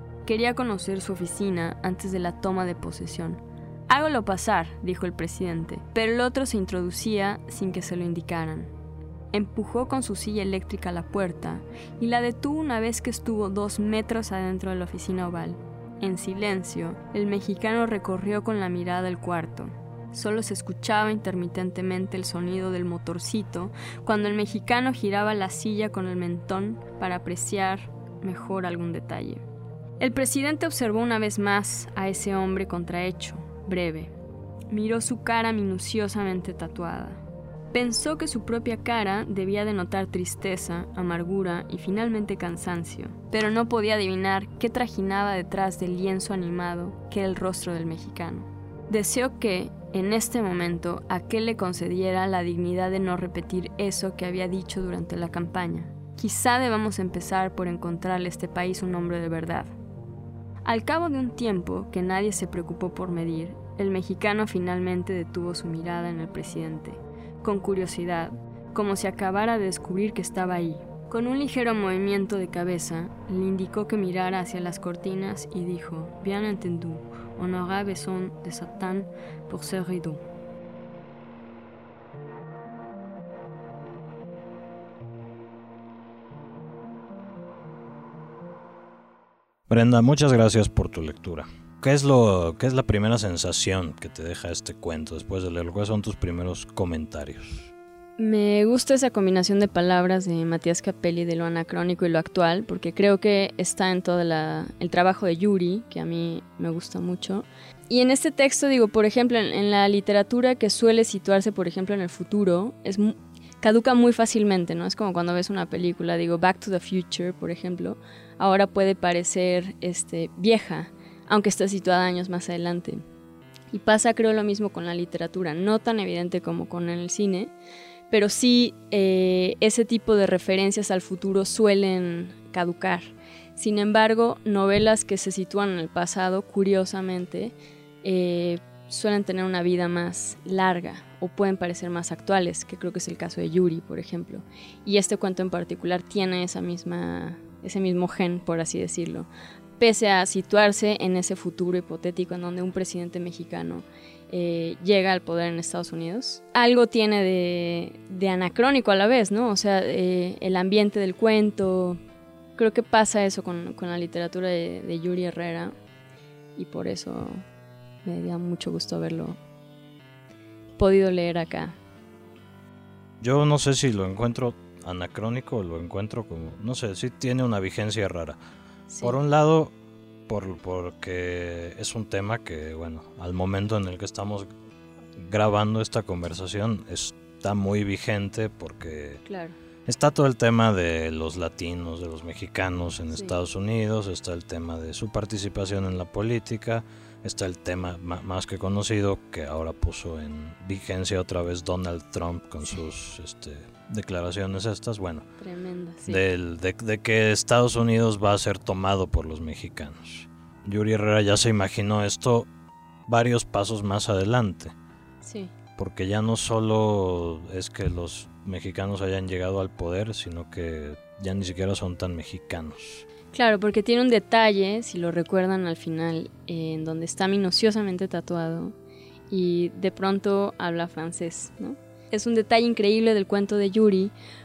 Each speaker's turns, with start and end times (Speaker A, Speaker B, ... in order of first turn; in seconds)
Speaker A: 0.2-8.7, 9.3-29.4, 30.0-34.1, 34.7-59.7, 60.6-80.2, 98.2-123.0, 123.7-127.5, 128.1-149.3, 149.8-162.0, 162.6-165.8, 166.6-167.4, 168.0-169.4, 170.8-171.8, 178.9-179.2, 189.2-189.5, 205.4-206.2, 215.2-215.5, 223.3-228.8, 229.3-234.1
Speaker B: 89.7-97.7, 173.2-178.4, 179.0-179.7, 180.3-184.5, 185.2-189.2, 189.9-205.2, 206.1-212.5, 213.1-214.8, 215.8-223.1